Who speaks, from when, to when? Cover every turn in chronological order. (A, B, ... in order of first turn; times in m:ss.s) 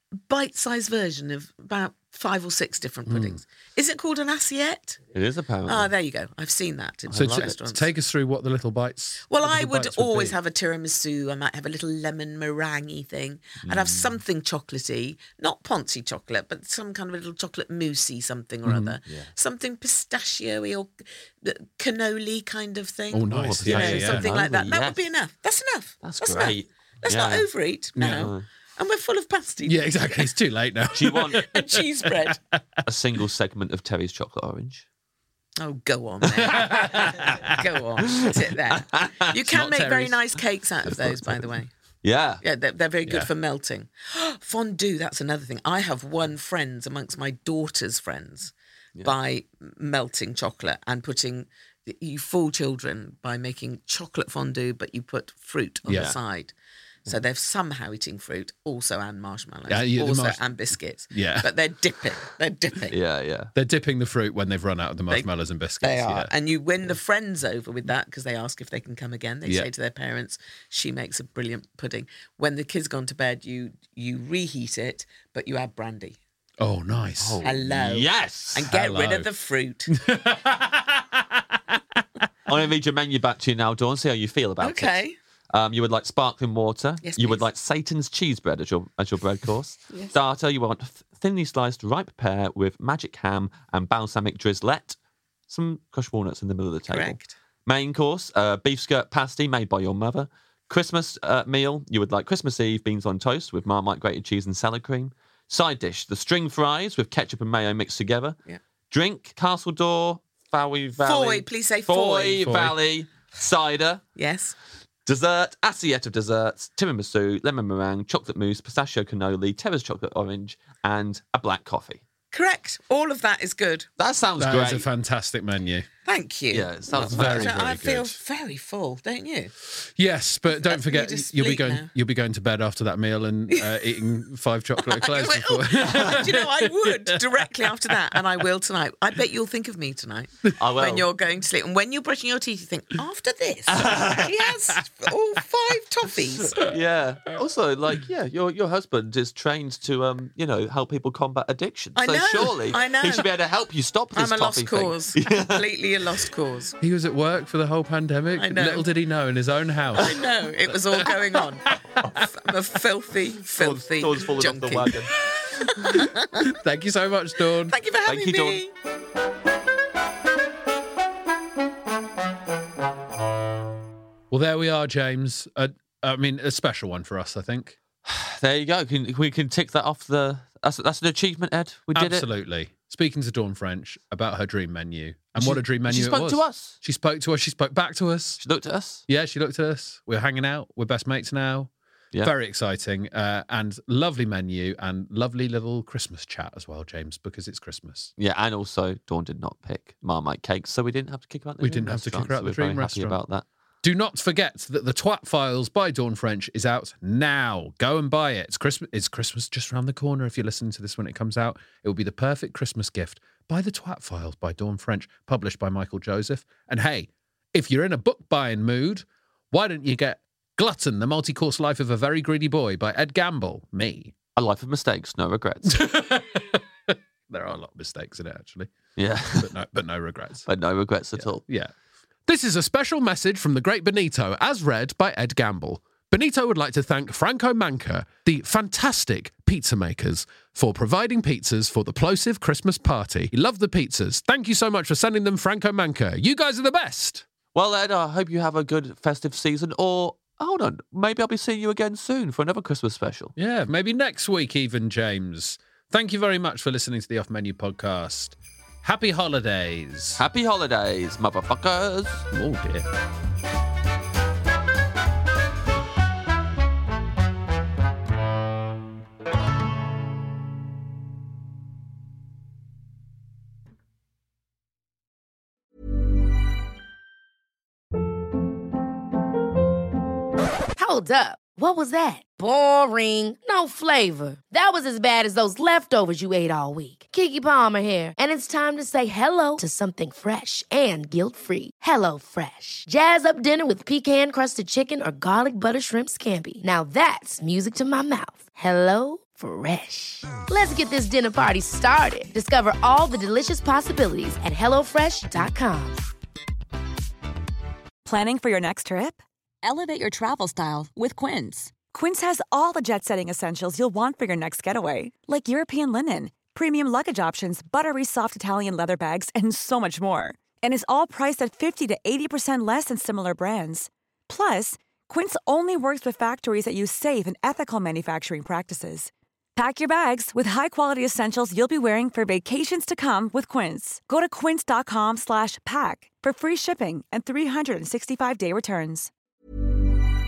0:00.3-0:05.0 A
0:03.1-0:03.4 B
0:05.1-0:05.9 C
0:05.6-0:07.9 A
0:07.1-0:07.6 C
0:07.1-0:10.4 B
0:09.3-0:20.9 A
0:13.6-0:14.2 C
0:18.6-0:19.0 B
0:19.0-0:19.3 C
0:21.4-0:30.3 A
0:23.1-0:24.3 B
0:23.3-0:25.1 C
0:26.0-0:27.5 C
0:28.0-0:28.3 B
0:28.0-0:28.4 C
0:29.6-0:32.8 B
0:30.9-0:31.5 C
0:31.4-0:32.4 A
0:32.8-0:34.8 C
0:35.6-0:41.7 A
0:36.3-0:37.6 B
0:36.9-0:37.4 C
0:38.1-0:40.1 C
0:39.5-0:40.1 B
0:41.0-0:41.4 C
0:42.0-0:42.4 C
0:42.4-0:56.5 A
0:43.0-0:43.3 B
0:55.8-0:56.1 B
0:55.9-0:56.2 C
0:57.0-1:03.0 A
0:59.7-1:00.5 B
1:01.1-1:01.5 B
1:02.9-1:03.5 C
1:03.5-1:06.3 B
1:05.8-1:16.2 A
1:09.4-1:09.7 B
1:16.6-1:17.5 B
1:17.2-1:18.6 C
1:17.4-1:20.0 A
1:18.7-1:19.3 B
1:19.9-1:22.2 B
1:22.5-1:25.0 C
1:24.6-1:25.1 A
1:25.5-1:35.0 C
1:27.0-1:27.5 A
1:35.5-1:48.4 C
1:36.9-1:37.3 A
1:48.9-1:54.0 C
1:51.0-1:52.5 A
1:52.4-1:52.7 B
1:54.2-1:54.5 A
1:55.0-2:02.0 C
2:02.3-2:03.9 A
2:04.0-2:04.8 C
2:04.4-2:05.9 B
2:06.0-2:09.5 A
2:06.5-2:07.6 C
2:07.0-2:08.2 B
2:09.7-2:18.2 B
2:10.5-2:11.9 A
2:13.5-2:13.8 A
2:14.8-2:26.6 A
2:20.6-2:21.1 C
2:23.7-2:24.3 C
2:26.5-2:35.7 C
2:32.0-2:33.3 A
2:34.1-2:36.8 A
2:36.8-2:42.2 B
2:38.4-2:38.9 A
2:39.9-2:44.9 A
2:43.6-2:45.9 C
2:45.5-2:46.5 A
2:46.4-2:47.8 B
2:47.6-2:48.7 A
2:48.0-2:48.6 C
2:54.3-2:57.8 B
2:58.0-3:02.3 C
3:01.9-3:08.4 B
3:05.4-3:06.8 C
3:08.4-3:09.0 C
3:09.1-3:11.7 B
3:12.2-3:18.1 B
3:18.2-3:23.4 C
3:21.6-3:23.2 B
3:23.8-3:44.1 B
3:44.4-3:45.8 C
3:45.6-3:48.7 B
3:49.0-3:49.5 C
3:49.3-3:50.5 B
3:50.4-3:51.4 C
3:51.2-3:51.7 B
3:52.2-4:07.2 B
4:07.5-4:13.3 C
4:13.4-4:20.2 B
4:20.2-4:22.2 C
4:22.3-4:22.8 B
4:40.8-5:06.0 D
5:08.0-5:39.1 E